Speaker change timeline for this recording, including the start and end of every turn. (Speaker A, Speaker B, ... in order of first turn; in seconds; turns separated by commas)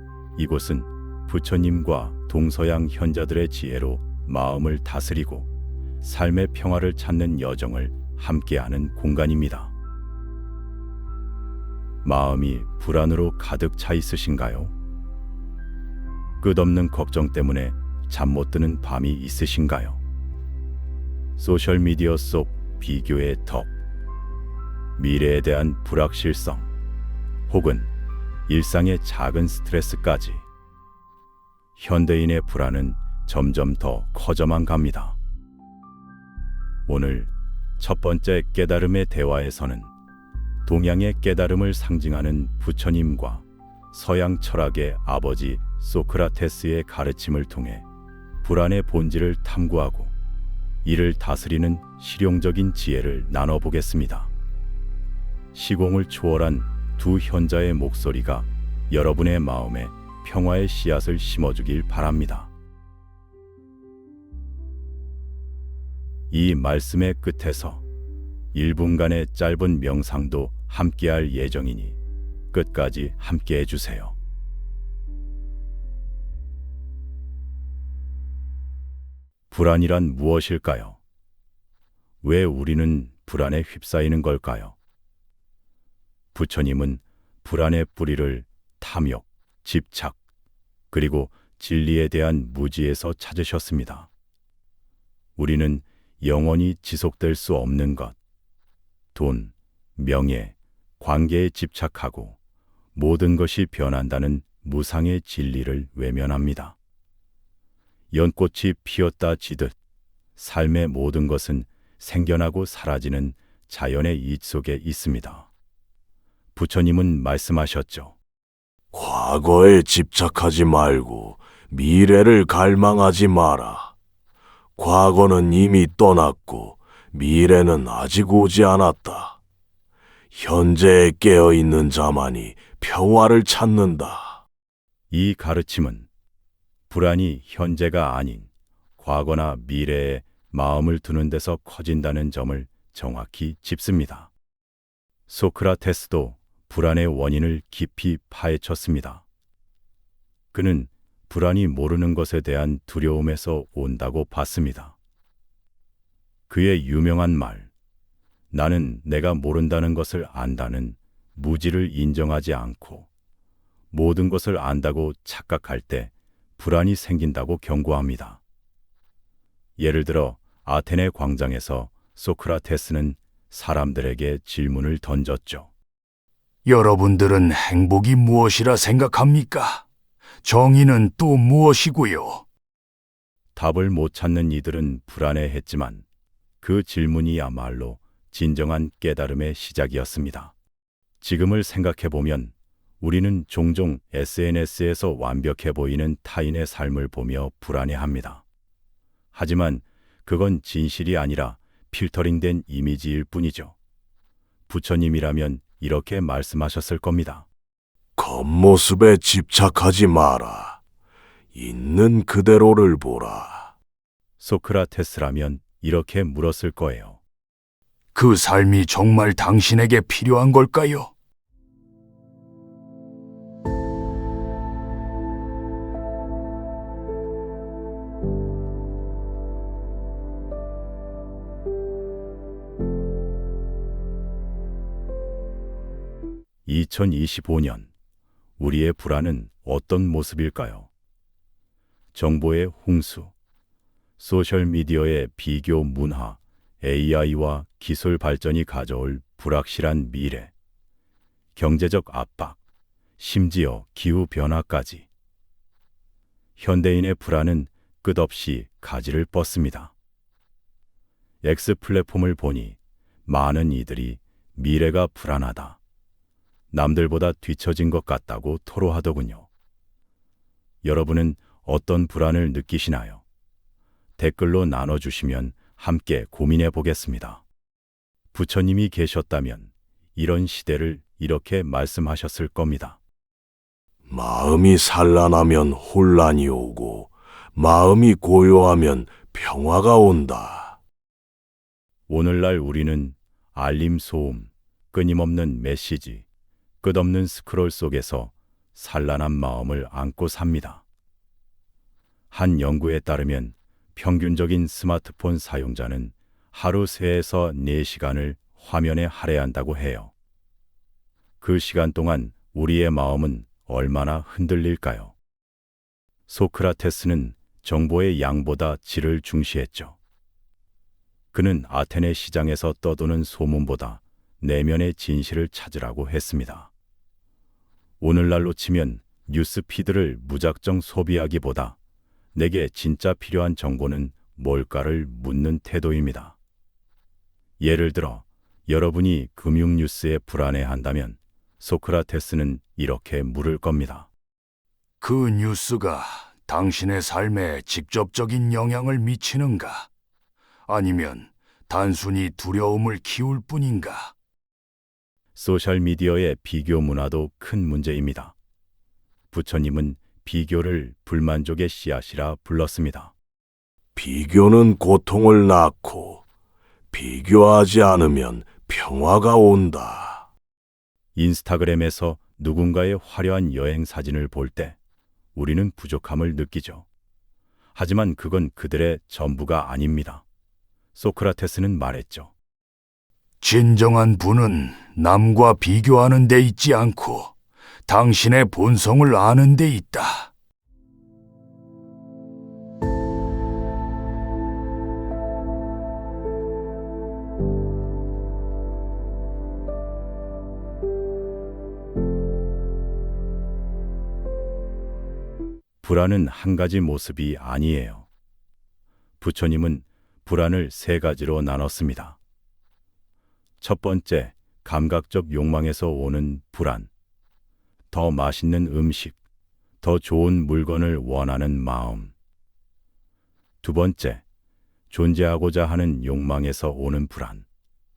Speaker A: 0.3-5.5, Speaker A: 6.0-9.7, Speaker A: 12.0-14.7, Speaker A: 16.4-20.0, Speaker A: 21.4-23.7, Speaker A: 25.0-26.7, Speaker A: 27.5-27.9, Speaker A: 28.5-30.4, Speaker A: 31.8-35.2, Speaker A: 36.9-39.9, Speaker A: 40.6-47.9, Speaker A: 48.4-50.1, Speaker A: 50.8-54.3, Speaker A: 55.5-62.5, Speaker A: 66.3-67.8, Speaker A: 68.5-72.0, Speaker A: 72.5-74.2, Speaker A: 79.5-81.0, Speaker A: 82.2-84.8, Speaker A: 86.3-90.2, Speaker A: 90.9-94.1, Speaker A: 95.4-98.2, Speaker A: 99.1-102.4, Speaker A: 102.9-106.8, Speaker A: 108.1-109.7, Speaker A: 110.3-115.5, Speaker A: 116.5-118.2, Speaker B: 118.9-123.9, Speaker B: 124.8-129.4, Speaker B: 130.3-134.4, Speaker A: 135.1-136.1, Speaker A: 136.9-144.3, Speaker A: 145.3-149.2, Speaker A: 150.5-154.9, Speaker A: 156.5-157.7, Speaker A: 158.5-163.1, Speaker A: 163.9-168.4, Speaker A: 169.8-175.7, Speaker C: 176.7-179.8, Speaker C: 180.4-182.4, Speaker A: 183.5-186.0, Speaker A: 186.6-190.5, Speaker A: 191.2-198.4, Speaker A: 199.3-203.8, Speaker A: 204.7-207.5, Speaker B: 208.2-210.8, Speaker B: 211.5-213.8, Speaker A: 214.4-217.2, Speaker C: 218.1-221.1, Speaker A: 236.7-237.9, Speaker A: 238.6-240.9, Speaker A: 242.1-243.3, Speaker A: 244.2-250.5, Speaker A: 251.5-252.6, Speaker A: 253.2-255.1, Speaker A: 256.6-259.9, Speaker A: 261.4-265.8, Speaker A: 266.7-269.5, Speaker A: 270.8-273.2, Speaker A: 274.2-277.4, Speaker A: 278.3-283.0, Speaker B: 284.1-290.8, Speaker A: 292.1-296.2, Speaker A: 296.8-300.8, Speaker A: 302.3-310.1, Speaker A: 311.4-315.1, Speaker A: 316.3-320.0, Speaker A: 321.3-326.7, Speaker A: 328.0-331.8, Speaker A: 332.3-336.4, Speaker A: 337.6-344.1, Speaker C: 345.0-349.9, Speaker C: 350.7-354.1, Speaker A: 355.3-358.3, Speaker A: 359.3-363.1, Speaker B: 363.9-366.2, Speaker B: 366.9-370.3, Speaker A: 371.1-374.8, Speaker A: 375.3-376.9, Speaker A: 377.7-380.2, Speaker A: 380.9-382.3, Speaker C: 383.4-387.3, Speaker C: 387.9-390.3, Speaker A: 405.8-408.1, Speaker A: 409.2-412.2, Speaker A: 413.6-416.9, Speaker A: 417.9-419.2, Speaker A: 419.8-422.1, Speaker A: 423.6-424.2, Speaker A: 424.9-427.4